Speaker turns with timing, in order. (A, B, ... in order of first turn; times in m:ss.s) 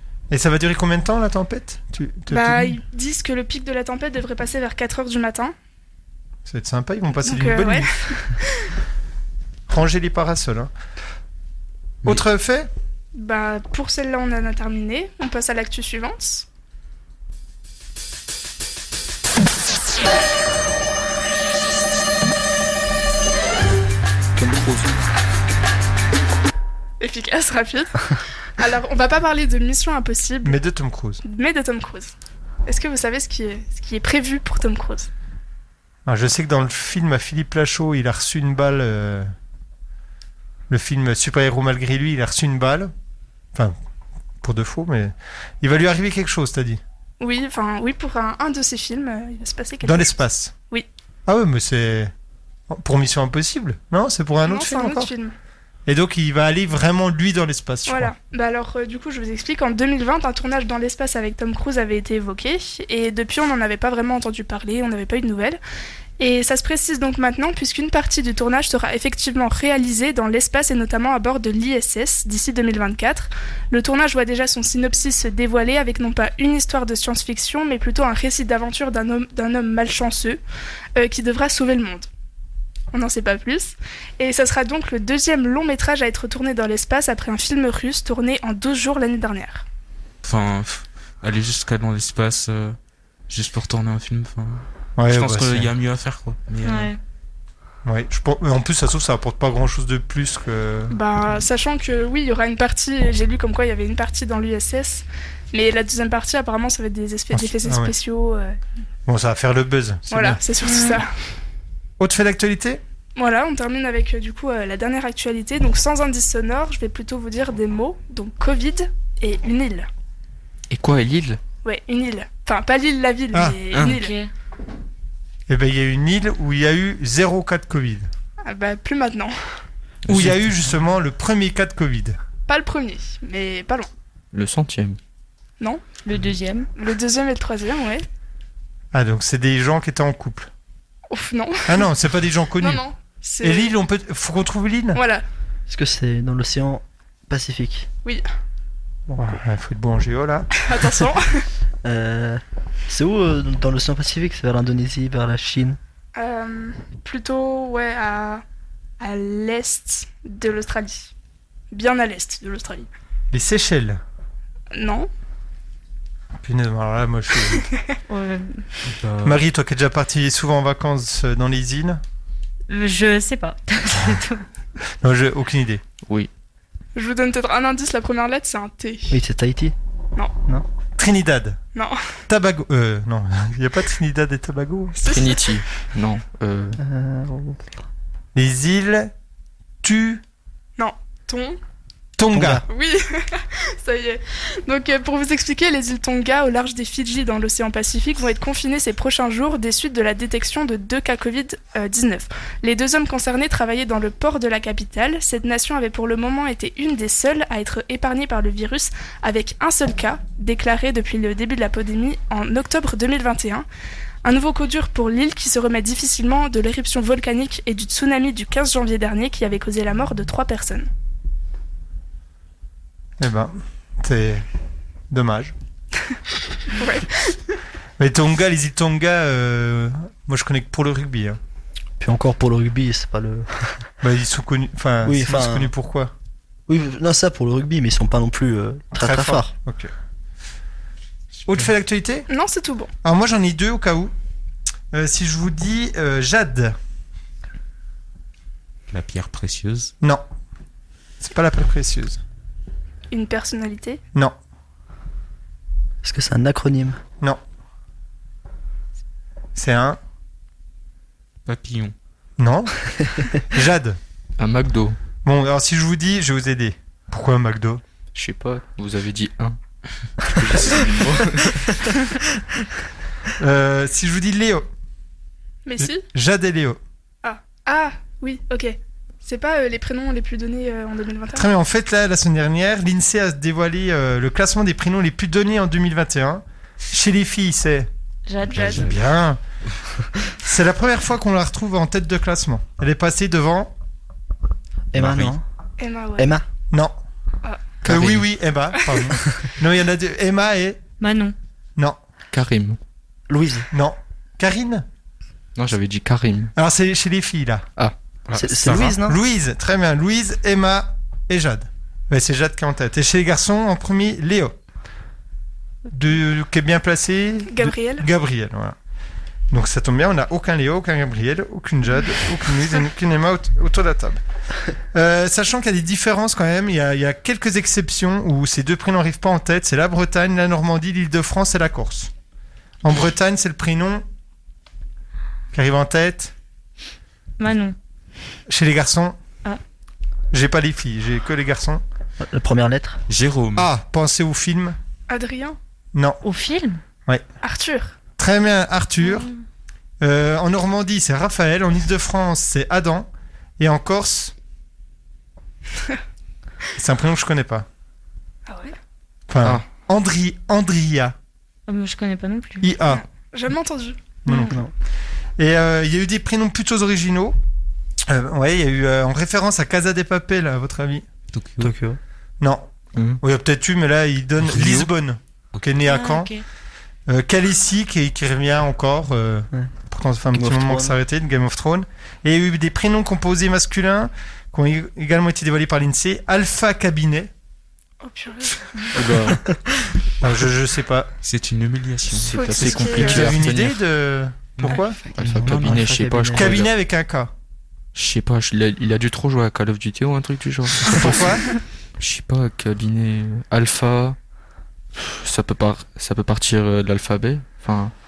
0:00.3-0:02.8 A
0:02.3-0:05.5 B
0:06.4-0:07.9 A
0:07.2-0:08.7 B
0:09.7-0:10.7 A
0:12.0-0:12.7 A
0:13.1-0:16.4 B
0:24.4-0:24.8 C
0:27.0-0:30.6 B
0:30.4-0:31.2 A
0:31.2-0:32.1 B
0:32.6-0:35.1 B
0:36.0-0:39.3 A
0:40.7-0:42.9 A
0:44.4-0:46.8 A
0:47.2-0:50.2 B
0:49.8-0:50.5 A
0:51.3-0:52.1 A
0:52.7-0:55.1 A
0:54.4-0:55.3 B
0:55.9-0:58.1 A
0:57.9-1:05.6 B
1:06.2-1:20.4 B
1:21.0-1:22.1 B
1:22.9-1:29.6 B
1:30.2-1:32.8 D
1:33.3-1:36.9 D
1:35.0-1:35.7 A
1:36.6-1:37.0 E
1:37.8-1:40.9 A
1:40.9-1:48.6 B
1:47.3-1:47.9 A
1:49.0-1:50.4 A
1:50.1-1:51.1 B
1:50.6-1:51.0 E
1:52.0-1:52.8 A
1:53.2-1:59.9 B
2:00.7-2:01.4 C
2:01.6-2:04.1 B
2:03.3-2:03.6 A
2:03.8-2:04.3 E
2:05.5-2:08.1 A
2:08.4-2:09.3 B
2:10.1-2:10.4 C
2:10.1-2:12.2 A
2:12.5-2:13.9 B
2:14.3-2:15.0 C
2:16.0-2:16.7 E
2:16.8-2:18.0 B
2:18.9-2:20.5 A
2:21.1-2:21.9 B
2:21.7-2:22.8 A
2:22.6-2:23.7 B
2:23.4-2:25.0 A
2:25.0-2:25.2 B
2:25.7-2:27.9 F
2:29.1-2:30.5 A
2:30.6-2:31.4 B
2:31.8-2:35.8 F
2:36.2-2:38.4 B
2:39.0-2:41.1 B
2:41.7-2:42.9 B
2:43.3-2:44.0 A
2:44.7-2:45.1 B
2:46.4-2:47.6 A
2:48.1-2:48.6 E
2:49.0-2:49.3 C
2:49.2-2:52.0 A
2:52.7-2:54.4 E
2:55.0-2:55.8 A
2:57.0-2:59.2 B
2:59.1-2:59.7 F
3:01.0-3:01.6 A
3:01.7-3:02.1 B
3:02.3-3:05.0 A
3:05.0-3:05.6 B
3:05.0-3:06.8 C
3:06.8-3:07.7 F
3:08.3-3:09.1 A
3:09.8-3:10.2 A
3:10.8-3:11.6 B
3:12.2-3:12.6 A
3:12.3-3:12.6 F
3:12.7-3:33.6 B
3:34.2-3:40.9 B
3:43.2-3:44.4 A
3:45.1-3:45.5 A
3:46.8-3:47.3 B
3:48.0-3:51.4 A
3:52.0-3:53.6 F
3:54.0-3:56.1 A
3:55.0-3:55.7 F
3:56.7-3:59.5 F
3:58.9-3:59.9 A
4:01.4-4:02.2 A
4:02.3-4:02.9 B
4:03.0-4:04.1 A
4:04.9-4:06.8 A
4:08.9-4:09.9 D
4:11.2-4:12.2 A
4:13.1-4:14.0 B
4:16.0-4:17.0 F
4:19.6-4:20.0 A
4:21.4-4:21.9 D
4:22.4-4:22.7 A
4:23.3-4:24.0 A
4:24.4-4:25.0 C
4:25.2-4:27.8 A
4:28.1-4:29.6 C
4:30.2-4:31.9 C
4:33.4-4:34.7 A
4:35.6-4:36.0 B
4:35.8-4:36.8 A
4:37.2-4:41.5 B
4:41.3-4:47.9 A
4:48.3-4:48.9 E
4:48.5-4:48.9 D
4:48.6-4:49.4 A
4:50.4-4:53.7 A
4:54.9-4:55.4 F
4:55.0-4:55.3 D
4:55.8-4:56.3 B
4:56.2-4:56.4 F
4:57.8-5:00.8 A
4:57.8-4:58.2 C
5:01.0-5:01.3 E
5:02.3-5:02.8 C
5:03.3-5:03.7 F
5:03.7-5:04.8 A
5:05.6-5:06.5 C
5:06.6-5:07.6 A
5:08.3-5:09.0 D
5:08.3-5:09.2 F
5:08.8-5:14.5 A
5:15.9-5:18.7 A
5:17.5-5:18.0 B
5:19.5-5:24.2 A
5:24.9-5:32.1 A
5:32.8-5:34.0 A
5:35.5-5:36.3 A
5:37.4-5:37.8 E
5:38.5-5:39.2 A
5:40.3-5:41.8 A
5:42.2-5:43.0 F
5:43.1-5:43.7 D
5:43.6-5:44.8 A
5:45.1-5:45.6 B
5:45.9-5:46.2 A
5:46.2-5:46.8 E
5:47.4-5:47.9 B
5:48.2-5:49.3 A
5:49.0-5:49.4 E
5:50.0-5:53.1 A
5:53.6-5:54.3 A
5:56.8-5:57.6 A
5:58.5-5:58.8 B
5:59.3-6:01.1 A
6:01.7-6:02.7 E
6:02.6-6:03.0 A
6:02.9-6:04.2 B
6:04.2-6:04.6 A
6:04.3-6:04.6 E
6:05.4-6:07.4 A
6:08.1-6:11.0 A
6:11.3-6:11.7 D
6:11.6-6:12.0 F
6:12.4-6:12.7 A
6:12.9-6:13.2 C
6:13.2-6:16.3 A
6:14.5-6:14.9 D
6:15.8-6:16.4 E
6:17.1-6:27.3 A
6:20.3-6:21.0 F
6:28.0-6:29.2 B
6:28.9-6:29.4 C
6:30.2-6:31.1 A
6:31.2-6:33.1 D
6:32.1-6:33.8 C
6:32.3-6:33.3 B
6:32.7-6:35.0 A
6:34.6-6:35.8 D
6:35.1-6:36.7 C
6:35.2-6:36.6 F
6:36.3-6:37.3 A
6:37.9-6:41.4 C
6:40.8-6:41.4 A
6:42.0-6:44.2 C
6:45.0-6:47.9 C